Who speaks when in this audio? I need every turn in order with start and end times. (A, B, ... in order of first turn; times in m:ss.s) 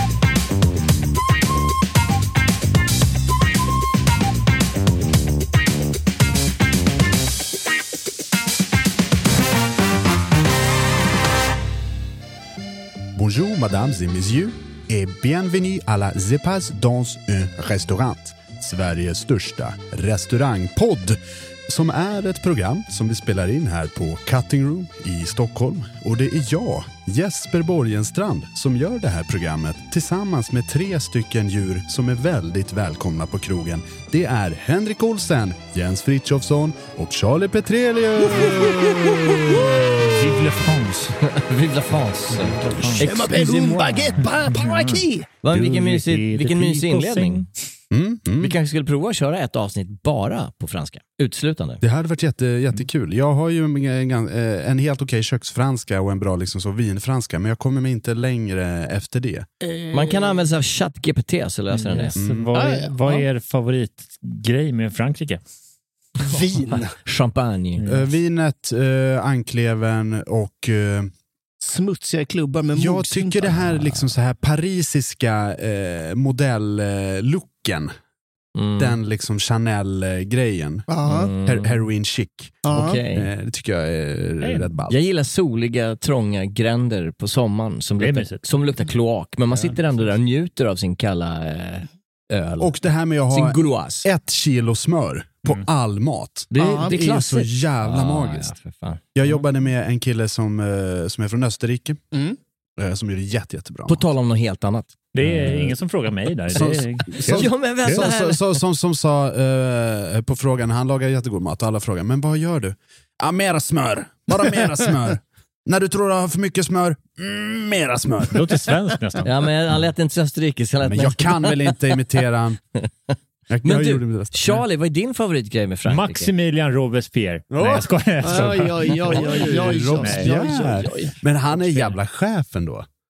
0:13.1-0:39.6 A
0:40.1-0:41.2 B
0:41.3-0:44.2 C
0:42.3-0:43.1 B
0:43.0-0:45.2 D
0:44.2-0:47.5 B
0:45.4-0:47.4 C
0:47.9-0:48.5 A
0:48.4-0:51.8 C
0:51.8-0:59.5 A
0:59.6-1:00.4 D
0:59.9-1:02.1 C
1:01.7-1:05.4 B
1:02.2-1:02.5 A
1:02.5-1:03.2 D
1:06.3-1:06.9 D
1:06.7-1:07.8 C
1:07.8-1:11.1 A
1:11.6-1:13.6 D
1:12.8-1:17.9 A
1:18.5-1:19.0 C
1:18.8-1:20.9 A
1:20.9-1:21.3 D
1:21.1-1:21.8 C
1:21.4-1:25.0 A
1:22.6-1:23.0 D
1:22.7-1:23.2 C
1:24.9-1:32.7 C
1:28.0-1:28.4 B
1:32.6-1:38.5 A
1:33.3-1:34.1 C
1:36.5-1:39.1 C
1:36.6-1:36.9 D
1:39.1-1:42.0 A
1:42.8-1:44.0 A
1:43.9-1:45.4 C
1:45.1-1:48.0 B
1:45.2-1:45.7 A
1:46.5-1:58.5 A
1:47.2-1:48.6 C
1:58.3-1:59.3 B
1:59.2-2:01.8 C
2:00.8-2:02.6 A
2:03.5-2:04.5 A
2:03.6-2:06.3 C
2:05.9-2:10.3 B
2:07.5-2:08.4 A
2:08.2-2:11.1 D
2:09.1-2:12.9 A